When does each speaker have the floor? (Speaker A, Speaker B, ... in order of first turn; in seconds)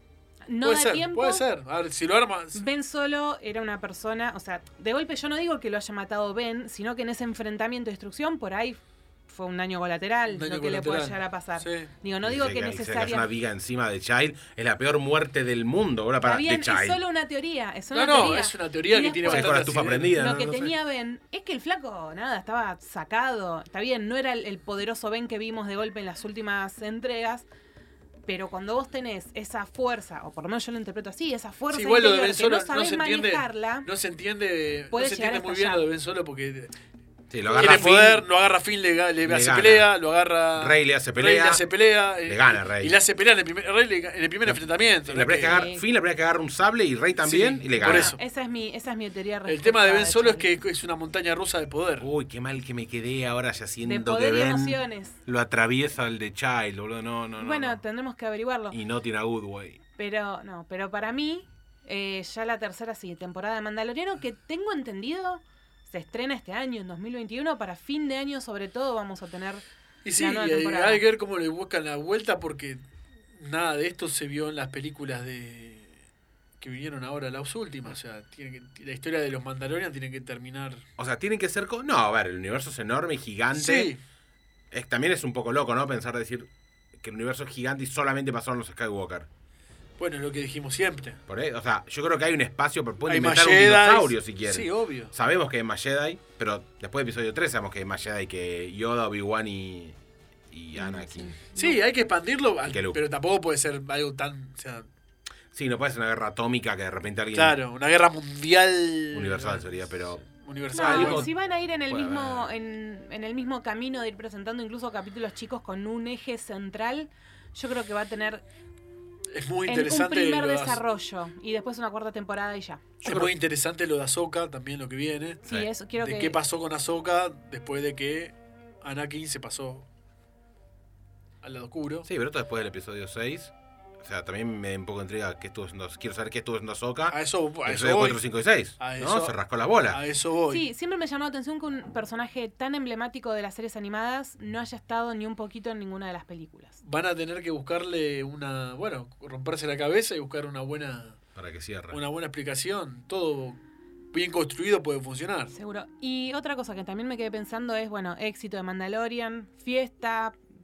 Speaker A: 0.5-1.4, 2.5-13.3, 16.2-27.4, 28.3-33.9, 34.9-35.8, 45.4-45.8, 47.8-50.4, 53.8-55.2, 57.4-58.8, 60.0-69.6, 70.2-71.0, 100.7-101.8, 110.7-118.4, 119.7-122.8, 125.5-126.4, 140.5-146.8, 155.5-160.4
Speaker B: 0.6-2.6, 10.3-11.9, 17.9-20.2, 31.7-36.7, 37.5-45.5, 47.2-48.2, 49.5-52.1, 70.0-72.8, 73.3-76.0, 76.6-80.8, 83.5-84.0, 90.0-91.2, 93.0-95.1, 101.5-104.9, 107.3-111.3, 119.3-120.8, 123.0-125.4, 126.0-129.8, 131.4-132.1, 137.1-138.2, 138.8-140.7, 146.8-151.2, 151.9-153.6, 154.1-155.5
Speaker C: 12.2-17.0, 19.3-20.7, 37.3-38.2, 39.2-39.9, 40.5-41.6, 42.2-43.0, 44.5-48.1, 52.0-57.8, 58.7-59.8, 81.0-83.9, 84.7-89.3, 91.3-100.0, 100.5-101.4, 102.7-103.0, 105.5-107.6, 109.1-110.2, 110.8-111.3, 111.9-112.5, 123.0-123.3, 132.0-140.0, 151.3-152.0